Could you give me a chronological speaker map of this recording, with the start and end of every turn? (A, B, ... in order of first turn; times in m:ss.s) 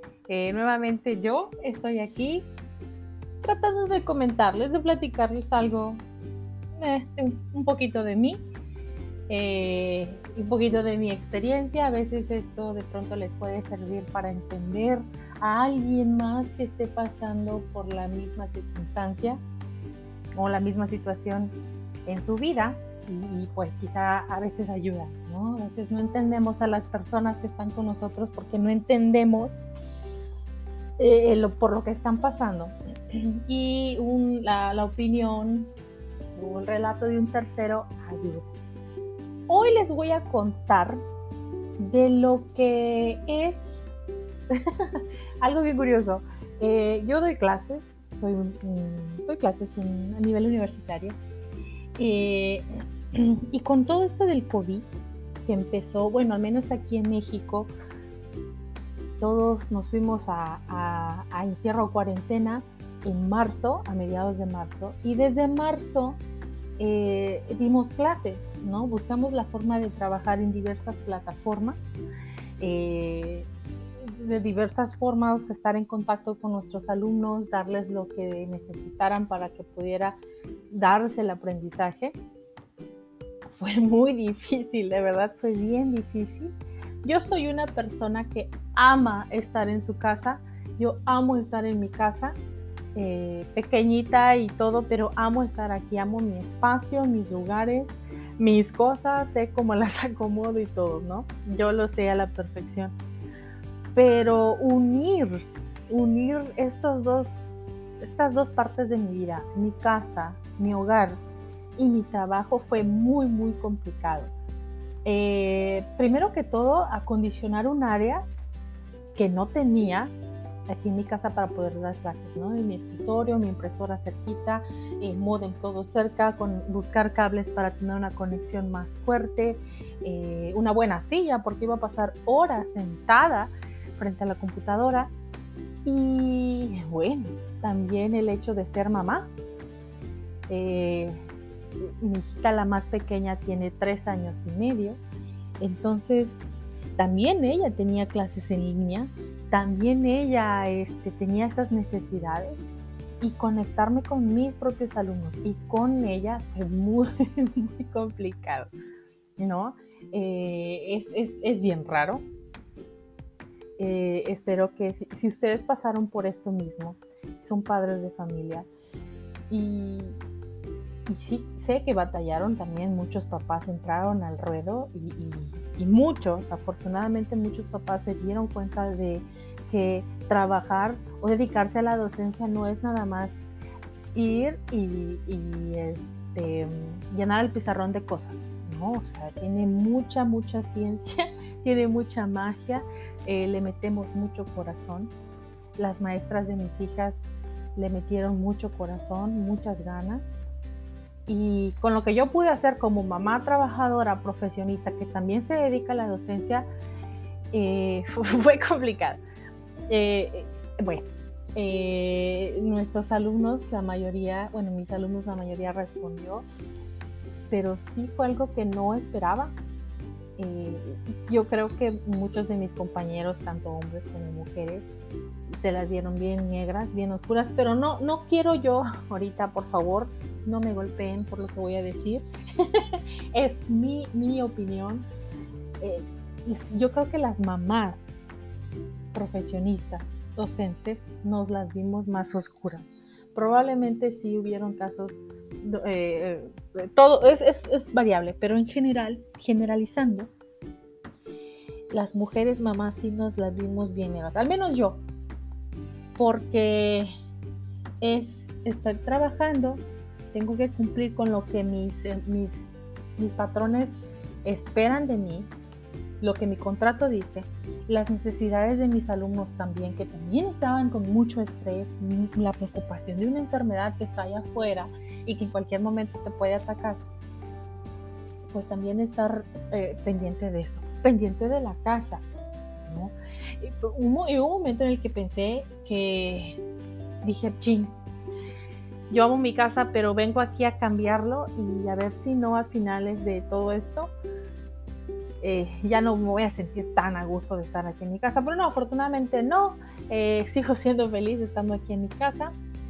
0:00.3-0:02.5 A
0:03.4-0:06.0 A
0:06.8-0:08.4 A
0:09.3-0:19.4 A
0:20.3-0:29.7 A
0:31.0-0:35.7 A
0:36.4-0:38.5 A
0:39.5-0:41.0 A
0:41.8-0:43.7 A
0:44.5-0:51.2 A
0:52.0-0:54.9 A
0:55.4-0:57.7 A
0:59.2-1:06.2 A
1:06.8-1:11.8 A
1:12.6-1:13.5 A
1:14.0-1:20.2 A
1:20.7-1:22.2 A
1:23.5-1:32.4 A
1:33.0-1:43.0 A
1:44.0-1:51.2 A
1:51.8-1:54.3 A
1:55.0-1:58.2 A
1:59.2-2:00.1 A
2:00.7-2:15.1 A
2:15.8-2:19.3 A
2:20.5-2:21.2 A
2:21.8-2:25.0 A
2:25.6-2:32.6 A
2:33.2-2:38.7 A
2:39.4-2:42.2 A
2:43.8-2:48.7 A
2:49.5-2:50.2 A
2:51.1-3:03.4 A
3:04.1-3:15.1 A
3:15.8-3:17.2 A
3:17.8-3:20.2 A
3:21.3-3:26.7 A
3:27.5-3:29.2 A
3:29.9-3:36.5 A
3:37.5-3:39.6 A
3:40.4-3:44.9 A
3:45.5-3:55.1 A
3:55.8-3:58.1 A
3:59.1-4:10.3 A
4:11.9-4:15.0 A
4:16.2-4:17.1 A
4:18.0-4:19.8 A
4:20.3-4:22.6 A
4:23.2-4:25.5 A
4:26.2-4:37.0 A
4:38.5-4:42.2 A
4:42.8-4:46.6 A
4:47.2-4:48.0 A
4:49.1-4:54.1 A
4:55.4-5:02.6 A